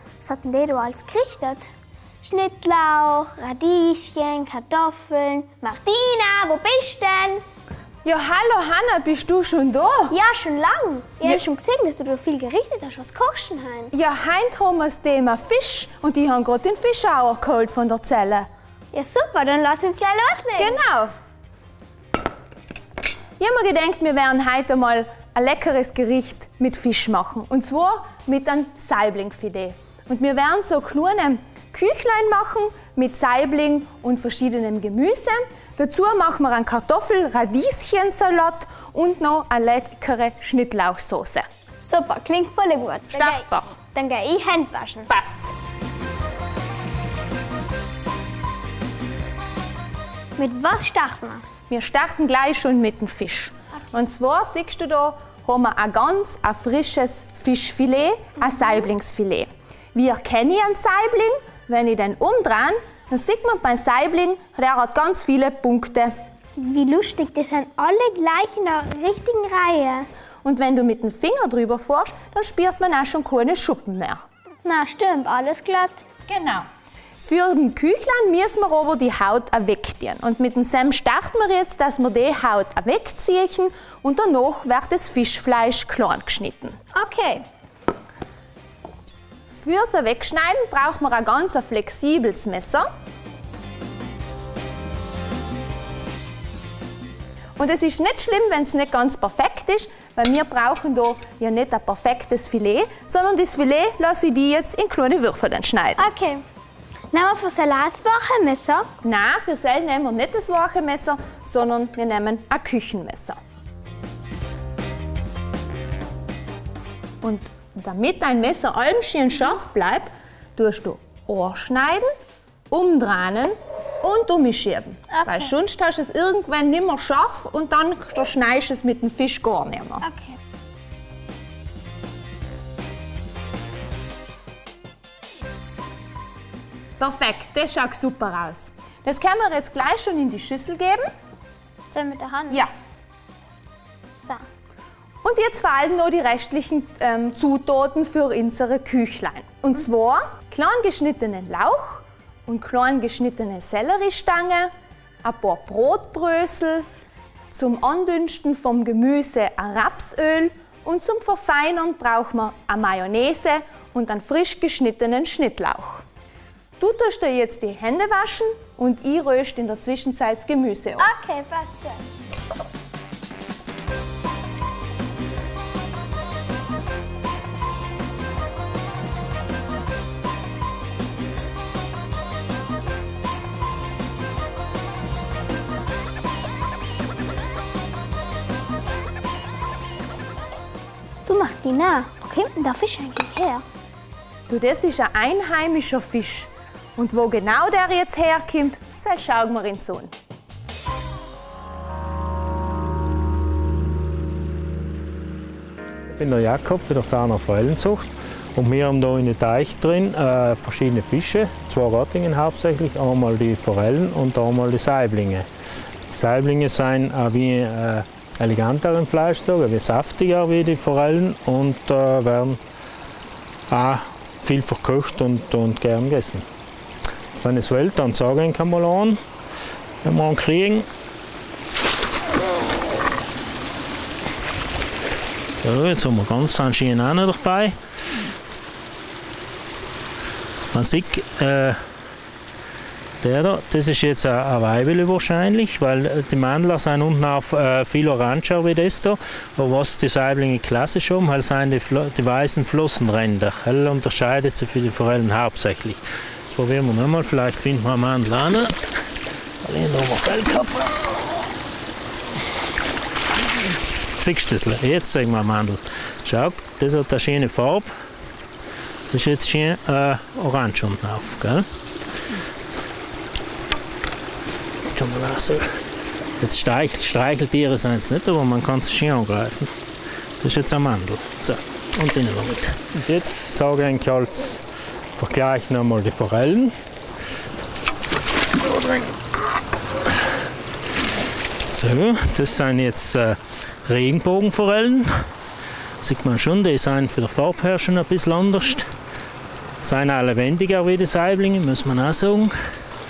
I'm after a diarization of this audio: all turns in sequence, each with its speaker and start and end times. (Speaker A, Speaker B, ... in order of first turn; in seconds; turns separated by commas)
Speaker A: 0.2-1.6, Speaker A: 2.2-7.4, Speaker B: 8.0-10.2, Speaker A: 10.1-13.9, Speaker B: 13.9-18.5, Speaker A: 18.9-20.8, Speaker B: 20.6-21.1, Speaker B: 23.4-41.5, Speaker A: 41.8-45.1, Speaker B: 43.1-43.8, Speaker B: 45.1-45.5, Speaker A: 50.4-51.5, Speaker B: 51.7-66.1, Speaker A: 66.6-70.1, Speaker B: 70.4-74.2, Speaker A: 74.6-76.0, Speaker B: 76.3-76.7, Speaker B: 77.2-86.8, Speaker A: 86.9-87.5, Speaker B: 89.6-92.9, Speaker B: 97.6-106.0, Speaker A: 106.0-106.4, Speaker A: 107.1-108.9, Speaker B: 109.0-113.4, Speaker B: 117.2-122.1, Speaker B: 122.7-130.1, Speaker A: 125.1-125.5, Speaker A: 130.0-130.4, Speaker B: 137.0-141.1, Speaker A: 141.9-142.6, Speaker A: 144.2-144.4, Speaker B: 145.2-154.7, Speaker B: 155.2-156.9, Speaker B: 157.5-166.0, Speaker B: 166.8-171.1, Speaker A: 171.0-172.0, Speaker A: 191.3-193.6, Speaker B: 194.5-200.1, Speaker C: 206.1-215.5, Speaker C: 216.1-222.6, Speaker C: 223.7-226.5, Speaker C: 227.3-229.2, Speaker C: 230.0-230.9, Speaker C: 235.6-237.8, Speaker C: 240.7-241.8, Speaker C: 243.2-258.8, Speaker C: 259.6-261.1, Speaker C: 264.2-267.9, Speaker C: 269.1-271.7, Speaker C: 274.9-275.8, Speaker C: 276.4-279.7, Speaker C: 280.4-284.6, Speaker C: 285.2-286.8, Speaker C: 288.6-289.1, Speaker C: 291.7-295.3, Speaker C: 296.0-298.9, Speaker C: 299.8-302.5